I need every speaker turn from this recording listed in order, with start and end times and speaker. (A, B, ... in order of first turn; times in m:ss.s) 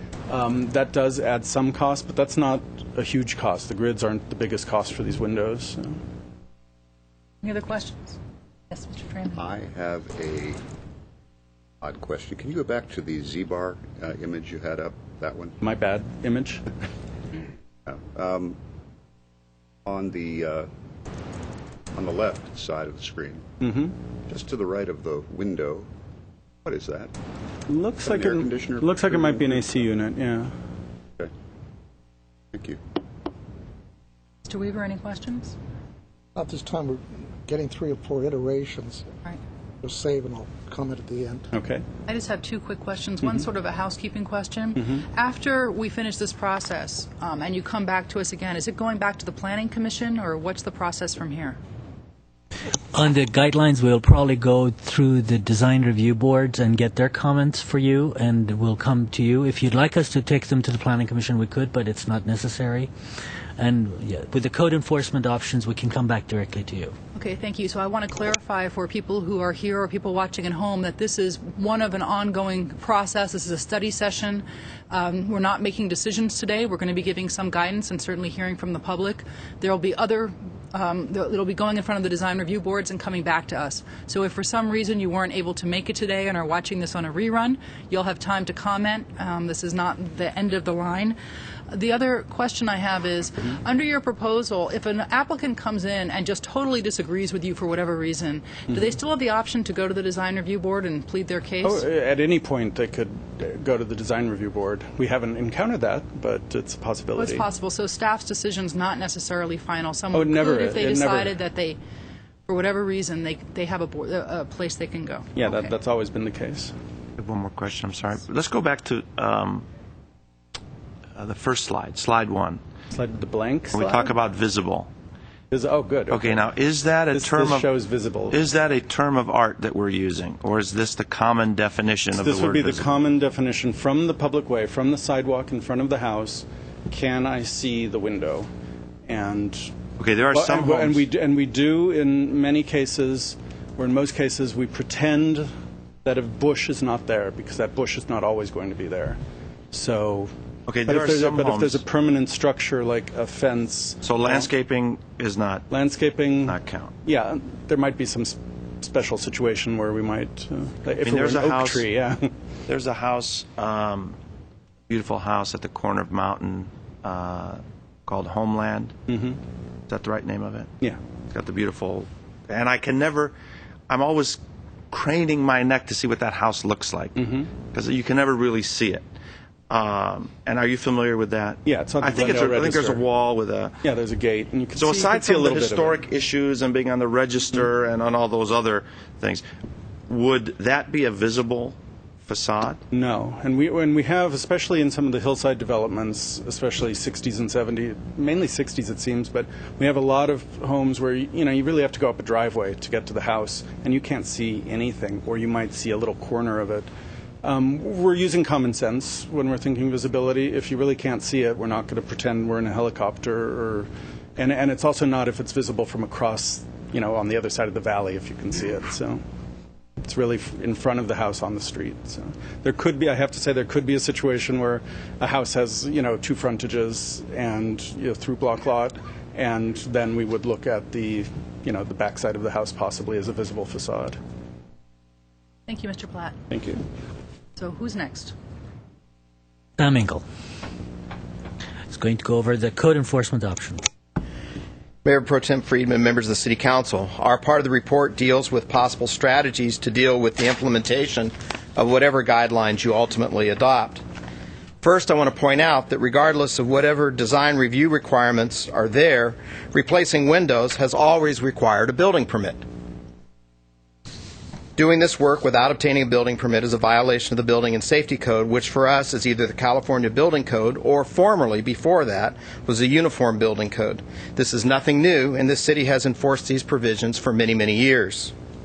0:00.3-0:06.0 A
0:07.4-0:08.2 B
0:08.7-0:09.4 B
0:09.3-0:10.6 C
0:11.8-0:15.5 C
0:15.6-0:16.6 A
0:17.8-0:18.6 C
0:19.8-0:20.7 C
0:21.9-0:23.4 C
0:23.6-0:23.9 A
0:24.3-0:25.9 C
0:26.6-0:27.1 C
0:27.7-0:30.5 A
0:28.0-0:29.9 C
0:32.5-0:32.8 C
0:34.4-0:35.5 B
0:36.3-0:39.0 D
0:39.8-0:41.5 D
0:41.5-0:41.8 A
0:42.1-0:51.6 B
0:52.9-1:02.9 E
1:03.6-1:06.9 E
1:07.1-1:31.2 B
1:31.7-1:41.8 B
1:41.6-1:47.4 A
1:47.2-1:51.8 B
1:50.1-1:51.3 A
1:52.5-1:55.7 B
1:55.4-1:56.7 A
1:57.2-1:59.6 F
2:01.2-2:02.6 F
2:02.9-2:04.1 A
2:03.7-2:04.9 F
2:05.5-2:06.5 A
2:06.1-2:07.7 F
2:07.1-2:08.4 A
2:08.3-2:12.8 F
2:12.1-2:18.5 A
2:19.1-2:19.7 A
2:20.0-2:21.0 F
2:20.3-2:25.5 A
2:26.0-2:29.2 A
2:29.7-2:30.3 A
2:30.7-2:31.8 F
2:30.8-2:34.5 A
2:34.0-2:35.6 F
2:35.7-2:42.3 A
2:36.4-2:36.9 F
2:41.0-2:41.9 F
2:42.7-2:44.2 F
2:44.9-2:48.9 F
2:49.1-2:49.4 A
2:49.9-2:50.7 F
2:51.3-2:53.3 F
2:53.9-2:57.1 F
2:57.2-2:57.5 A
2:57.7-2:59.0 F
2:59.7-3:03.8 F
3:01.6-3:03.0 A
3:03.8-3:06.0 A
3:04.7-3:09.4 F
3:10.1-3:12.8 F
3:12.9-3:26.9 A
3:27.4-3:39.2 A
3:40.0-3:54.2 A
3:55.7-3:56.4 B
3:56.5-3:56.8 A
3:57.6-3:58.3 B
3:59.8-4:00.2 E
4:01.9-4:03.8 E
4:05.0-4:14.0 G
4:14.8-4:22.6 G
4:24.8-4:38.3 G